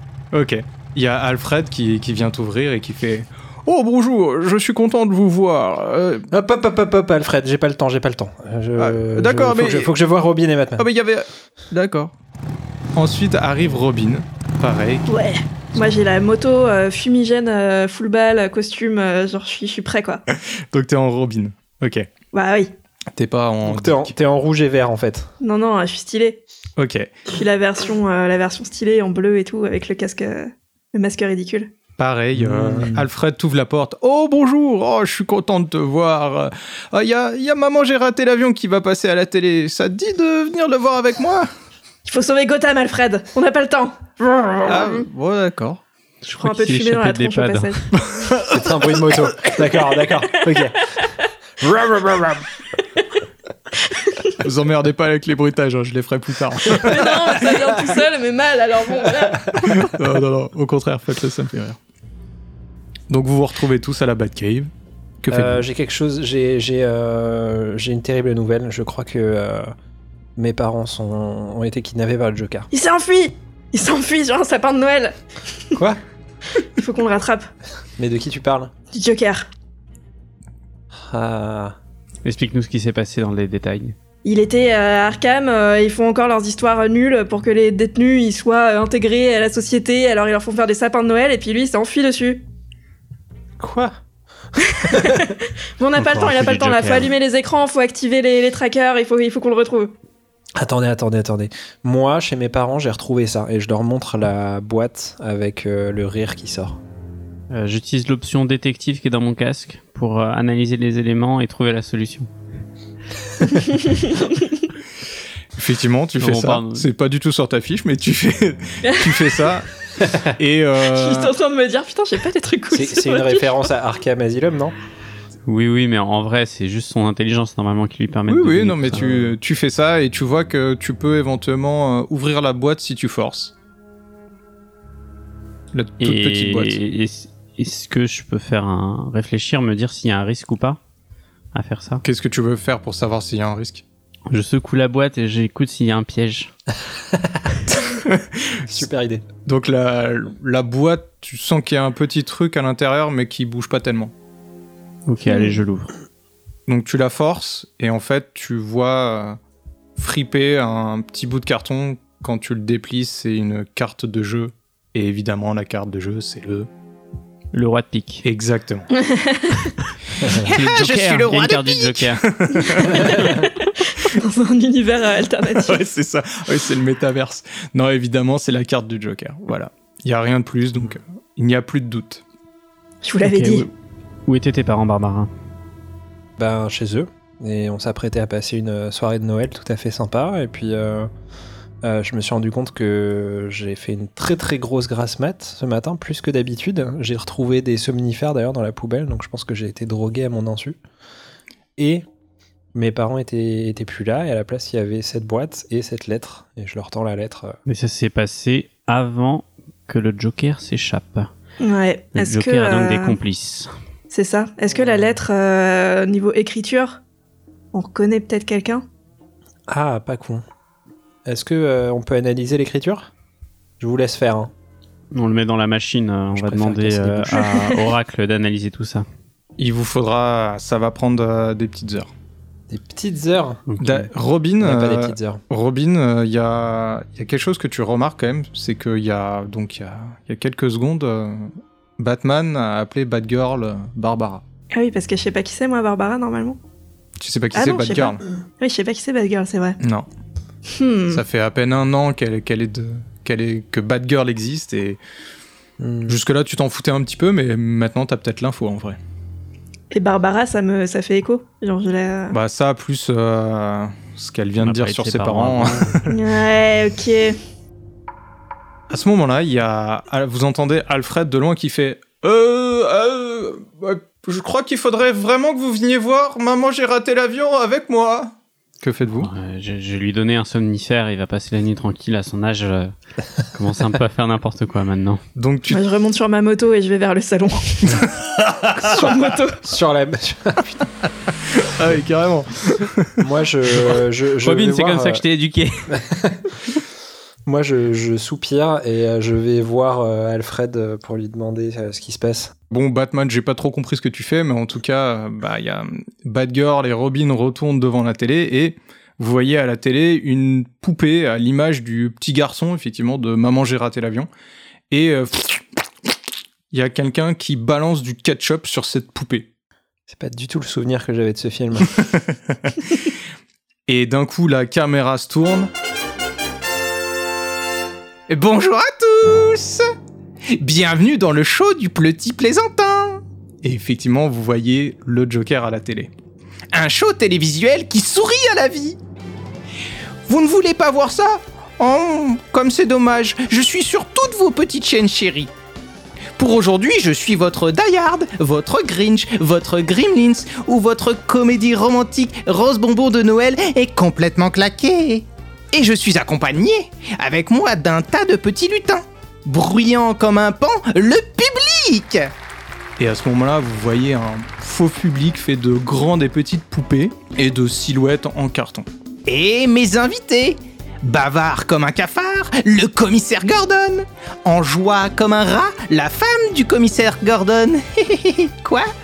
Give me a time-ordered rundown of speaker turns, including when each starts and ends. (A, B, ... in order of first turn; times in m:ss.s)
0:00.3-0:06.3 A
0:06.3-0:10.8 B
0:08.8-0:09.9 A
0:10.8-0:12.1 A
0:13.0-0:15.1 A
0:15.1-0:20.2 C
0:20.3-0:22.1 A
0:22.3-0:22.7 C
0:23.1-0:24.1 A
0:23.6-0:25.3 B
0:25.4-0:26.4 C
0:26.8-0:27.1 A
0:27.3-0:31.7 C
0:32.0-0:41.5 A
0:32.3-0:33.0 B
0:42.0-0:44.7 C
0:44.6-0:45.8 A
0:46.2-0:47.8 D
0:46.4-0:47.9 C
0:48.0-0:49.2 A
0:48.5-0:50.8 B
0:51.6-0:52.4 B
0:54.0-0:54.4 C
0:54.4-0:57.5 A
0:56.7-0:59.9 C
0:59.6-1:01.8 A
1:03.1-1:04.7 A
1:05.2-1:05.6 A
1:05.3-1:09.7 B
1:10.4-1:12.7 B
1:12.7-1:15.1 C
1:15.7-1:16.0 B
1:16.6-1:17.5 C
1:18.0-1:18.7 B
1:18.9-1:19.5 C
1:20.9-1:21.8 B
1:22.2-1:24.0 D
1:24.2-1:32.4 C
1:33.6-1:34.0 B
1:34.7-1:39.9 C
1:34.9-1:35.2 B
1:36.0-1:37.1 D
1:40.6-1:46.8 B
1:47.5-1:52.3 D
1:53.4-1:54.7 C
1:55.6-2:01.3 A
1:56.2-1:56.8 D
1:58.8-1:59.5 C
2:00.8-2:03.7 C
2:02.7-2:04.8 B
2:05.5-2:09.0 D
2:08.3-2:13.5 A
2:09.0-2:09.3 B
2:15.7-2:16.8 A
2:16.0-2:20.8 D
2:21.5-2:22.0 D
2:22.0-2:23.8 A
2:24.3-2:26.5 D
2:27.1-2:27.5 B
2:27.7-2:28.8 A
2:28.7-2:29.2 B
2:29.4-2:34.1 A
2:35.1-2:35.9 D
2:35.3-2:35.6 C
2:36.7-2:39.4 A
2:40.0-2:46.7 A
2:47.5-2:48.2 D
2:48.2-2:48.9 A
2:49.0-2:49.7 C
2:50.2-2:53.4 A
2:50.2-2:52.3 D
2:52.6-2:55.8 C
2:52.8-2:53.1 D
2:55.5-3:02.2 A
3:03.0-3:03.7 C
3:03.2-3:03.7 D
3:04.3-3:05.3 D
3:06.4-3:11.1 B
3:11.8-3:20.8 B
3:21.8-3:22.0 B
3:22.7-3:27.6 B
3:27.6-3:31.3 D
3:31.6-3:33.2 C
3:32.2-3:33.7 D
3:34.1-3:37.0 C
3:34.7-3:35.2 B
3:37.7-3:38.8 C
3:39.7-3:40.4 B
3:41.2-3:43.1 B
3:43.8-3:44.5 B
3:45.1-3:49.0 D
3:46.3-3:47.5 B
3:47.4-3:47.8 C
3:49.6-3:52.1 A
3:52.7-3:53.7 B
3:53.7-3:54.0 D
3:53.8-4:04.4 A
3:54.6-3:55.4 B
4:04.7-4:06.6 C
4:07.2-4:08.2 A
4:07.5-4:09.8 C
4:09.8-4:10.0 A
4:10.7-4:11.2 C
4:11.1-4:15.0 A
4:15.8-4:16.2 B
4:16.1-4:19.0 A
4:19.9-4:22.4 C
4:22.3-4:26.2 A
4:24.6-4:26.0 D
4:26.1-4:27.4 C
4:28.9-4:39.3 A
4:39.2-4:45.2 D
4:45.4-4:45.8 A
4:45.7-4:48.1 C
4:47.9-4:49.1 A
4:48.8-4:49.6 C
4:49.6-4:50.9 B
4:51.4-4:53.2 A
4:53.2-4:55.2 B
4:54.4-4:56.0 D
4:55.9-4:56.5 B
4:57.4-5:02.5 B
5:02.7-5:14.3 A
5:14.9-5:15.6 A
5:16.7-5:19.5 A
5:20.1-5:21.9 B
5:21.9-5:22.8 A
5:23.9-5:25.7 A
5:28.3-5:29.9 A
5:30.5-5:36.1 A
5:36.7-5:39.0 A
5:40.3-5:45.5 A
5:46.4-6:02.3 A
6:03.0-6:18.9 A